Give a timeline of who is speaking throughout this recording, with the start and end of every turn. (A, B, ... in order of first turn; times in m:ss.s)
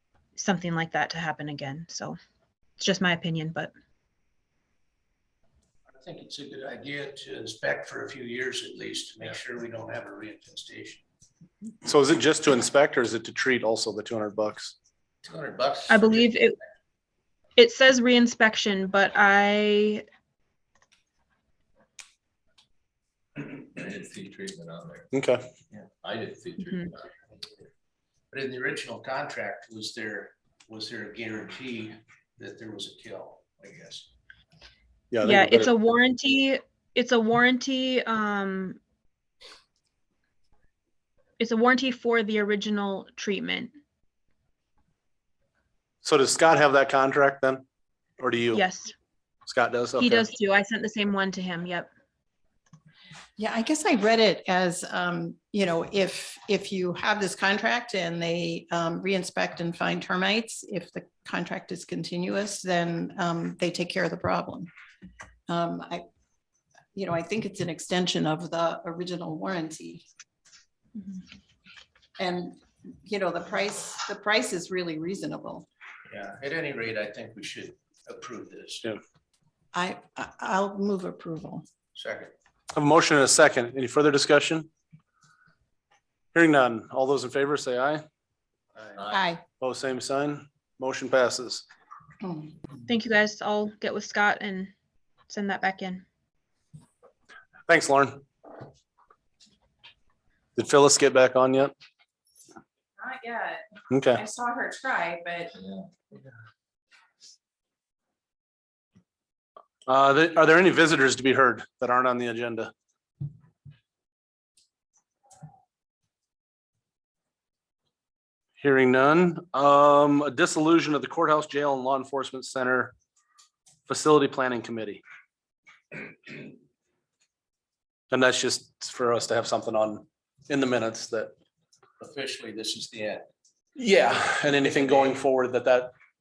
0:00.3-0:02.2 A
0:02.8-0:03.7 A
0:05.9-0:11.0 B
0:11.8-0:14.7 C
0:15.2-0:16.3 B
0:15.9-0:16.6 A
0:17.6-0:20.0 A
0:23.4-0:25.1 D
0:25.1-0:25.4 C
0:26.0-0:27.0 D
0:26.6-0:26.9 A
0:28.3-0:34.1 B
0:35.1-0:35.7 C
0:35.2-0:38.8 A
0:41.4-0:43.7 A
0:46.0-0:47.6 C
0:48.2-0:48.6 C
0:48.5-0:48.9 A
0:49.5-0:50.2 C
0:50.0-0:51.9 A
0:53.4-1:04.7 E
1:05.5-1:06.0 E
1:06.9-1:10.0 E
1:12.2-1:15.6 E
1:16.1-1:18.8 B
1:19.7-1:21.6 E
1:22.0-1:22.3 B
1:22.7-1:24.7 C
1:26.3-1:28.0 C
1:29.1-1:29.4 E
1:29.6-1:31.6 C
1:32.2-1:32.6 E
1:32.9-1:34.7 A
1:35.3-1:36.0 A
1:37.7-1:38.2 C
1:40.6-1:41.7 C
1:43.0-1:45.5 F
1:43.9-1:44.2 C
1:45.6-1:45.8 D
1:49.9-1:52.7 C
1:58.6-2:02.9 C
2:03.9-2:05.0 C
2:08.1-2:11.3 C
2:12.0-2:13.3 B
2:13.8-2:15.9 C
2:14.5-2:15.2 B